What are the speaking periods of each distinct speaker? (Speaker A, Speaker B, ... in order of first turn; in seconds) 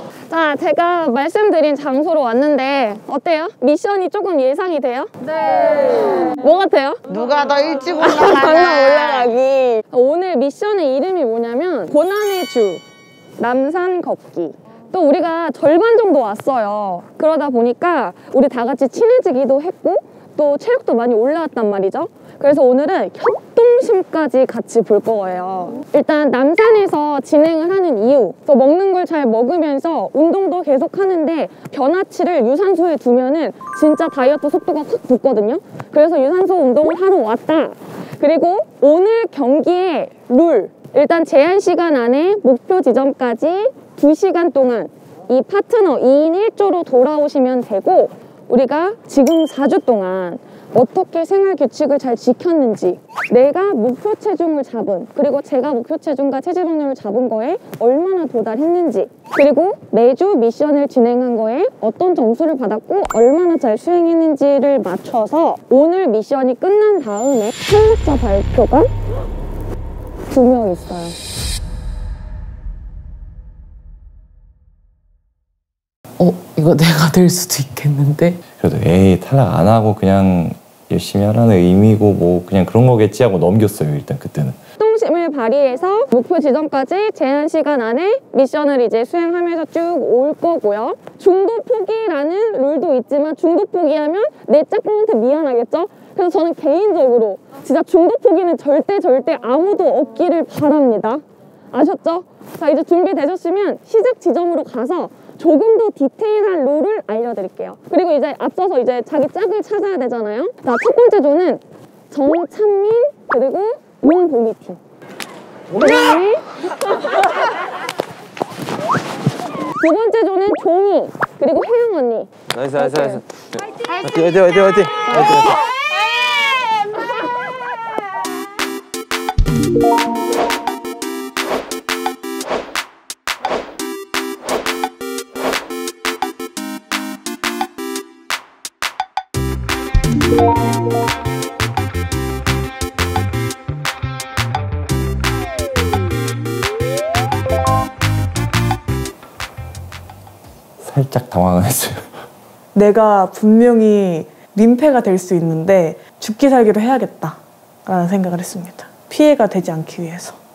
Speaker A: 0.3-5.1, 5.7-7.0, 8.0-12.8, 13.4-68.9, 70.3-71.2, 84.8-114.8, 115.8-117.3, 119.8-123.2, 125.0-125.6
Speaker B: 7.1-9.3
Speaker C: 76.2-78.4
Speaker D: 78.6-84.6, 150.8-152.2
Speaker E: 122.5-125.6
Speaker F: 152.7-160.4